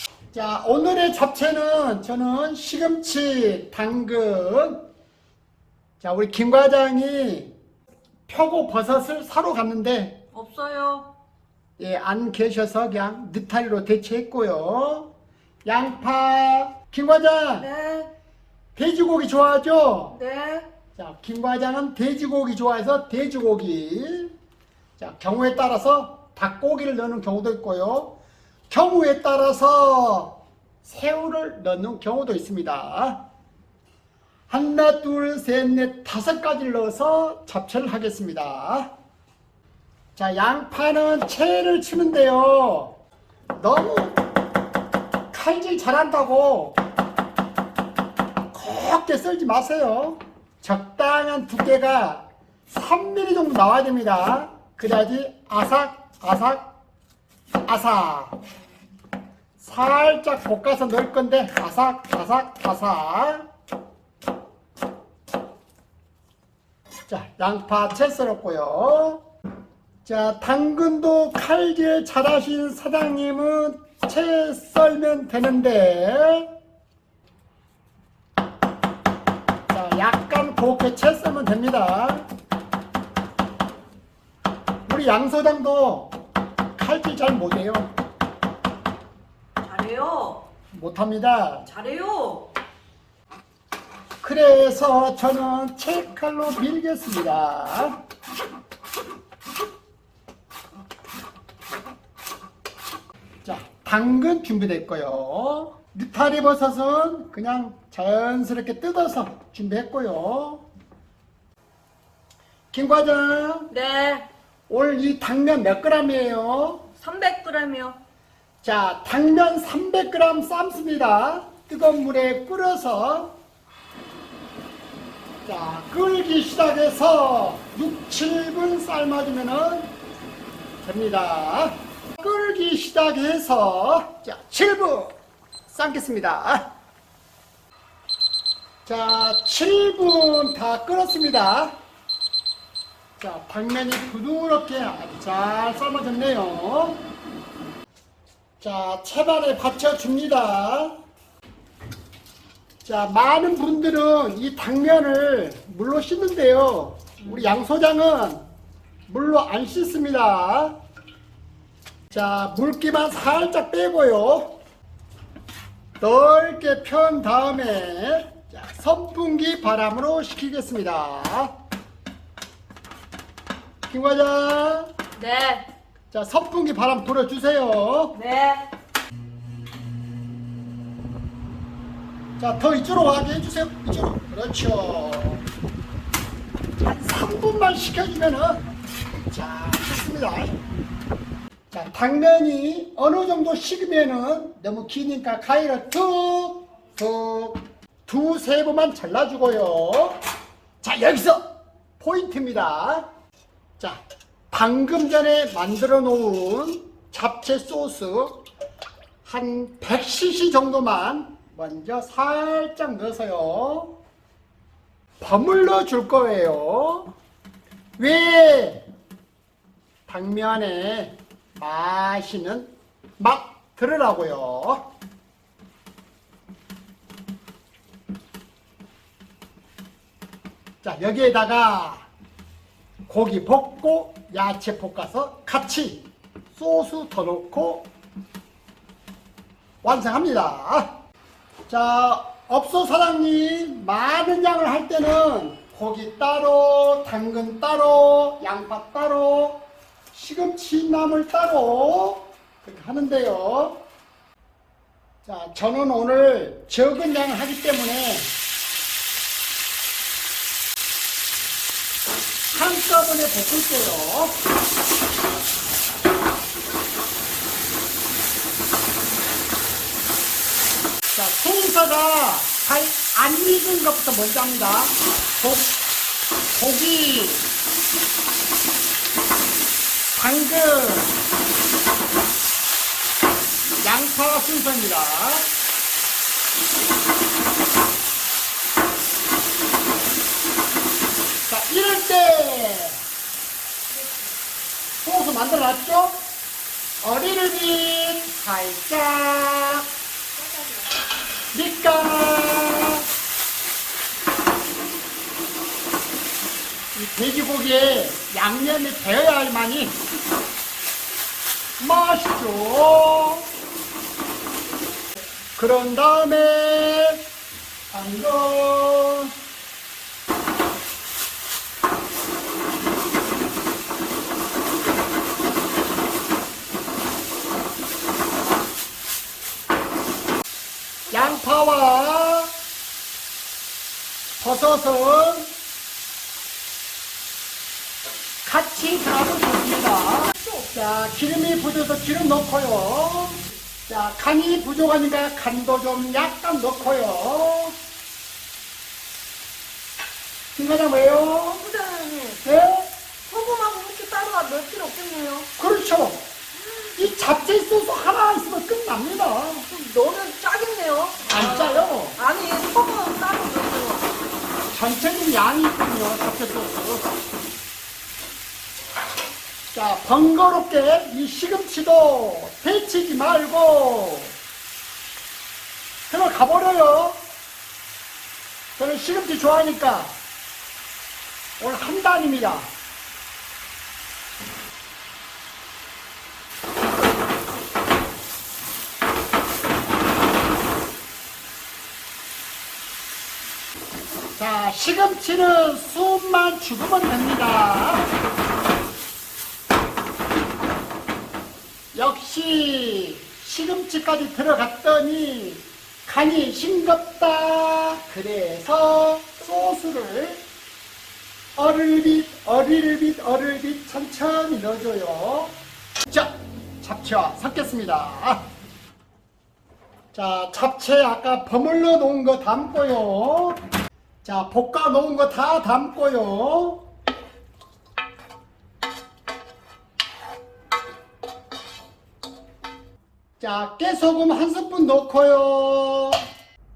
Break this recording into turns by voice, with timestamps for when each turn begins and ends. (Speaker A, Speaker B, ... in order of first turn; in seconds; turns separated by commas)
Speaker A: 0.3-4.8, Speaker A: 6.0-7.5, Speaker A: 8.3-10.2, Speaker B: 10.3-11.1, Speaker A: 11.8-15.1, Speaker A: 15.7-17.7, Speaker B: 17.6-18.1, Speaker A: 18.8-20.2, Speaker B: 20.1-20.7, Speaker A: 20.9-24.3, Speaker A: 25.0-28.1, Speaker A: 28.7-33.2, Speaker A: 34.5-38.9, Speaker A: 40.2-42.9, Speaker A: 43.5-44.2, Speaker A: 45.3-46.8, Speaker A: 48.5-56.7, Speaker A: 57.7-58.3, Speaker A: 59.6-63.5, Speaker A: 67.1-69.2, Speaker A: 70.0-76.5, Speaker A: 79.7-82.3, Speaker A: 84.8-86.2, Speaker A: 86.8-87.9, Speaker B: 89.6-90.5, Speaker A: 90.7-91.7, Speaker B: 91.7-92.5, Speaker A: 94.2-98.0, Speaker A: 103.4-110.6, Speaker A: 112.7-113.7, Speaker B: 113.7-114.2, Speaker A: 114.7-116.8, Speaker B: 117.0-118.0, Speaker A: 118.6-123.3, Speaker A: 125.5-129.9, Speaker A: 130.8-135.2, Speaker A: 135.7-136.7, Speaker A: 138.8-141.7, Speaker A: 143.2-147.0, Speaker A: 148.6-151.0, Speaker A: 152.8-158.4, Speaker A: 159.1-160.7, Speaker A: 162.1-164.6, Speaker A: 166.0-171.5, Speaker A: 173.9-174.9, Speaker B: 175.2-175.7, Speaker A: 176.1-178.2, Speaker B: 178.2-178.7, Speaker A: 182.4-185.4, Speaker A: 186.8-190.6, Speaker A: 191.7-200.2, Speaker A: 200.8-201.5, Speaker A: 202.0-203.1, Speaker A: 203.8-208.4, Speaker A: 209.2-213.9, Speaker A: 215.2-217.1, Speaker A: 218.0-218.8, Speaker A: 220.1-224.8, Speaker A: 230.8-232.1, Speaker A: 233.1-237.9, Speaker A: 239.8-240.9, Speaker A: 241.7-253.8, Speaker A: 255.2-258.3, Speaker A: 262.5-264.4, Speaker A: 271.1-275.8, Speaker A: 276.5-277.5, Speaker A: 280.1-281.1, Speaker A: 283.8-285.5, Speaker A: 291.5-293.0, Speaker A: 295.0-296.2, Speaker A: 297.0-299.9, Speaker A: 301.5-303.1, Speaker A: 306.9-310.0, Speaker A: 311.8-313.5, Speaker A: 315.6-317.2, Speaker A: 317.9-319.4, Speaker A: 331.1-332.5, Speaker A: 334.4-335.5, Speaker A: 338.4-347.8, Speaker A: 350.5-351.6, Speaker B: 351.6-352.4, Speaker A: 352.4-352.9, Speaker B: 353.3-355.5, Speaker A: 355.6-356.2, Speaker A: 357.0-359.7, Speaker B: 359.7-364.1, Speaker A: 361.3-362.2, Speaker A: 364.7-367.1, Speaker A: 369.7-374.4, Speaker A: 376.1-377.2, Speaker A: 378.8-380.2, Speaker A: 381.6-382.7, Speaker A: 394.4-398.1, Speaker A: 401.9-410.4, Speaker A: 411.6-418.4, Speaker A: 420.1-423.6, Speaker A: 424.2-426.8, Speaker A: 433.4-436.2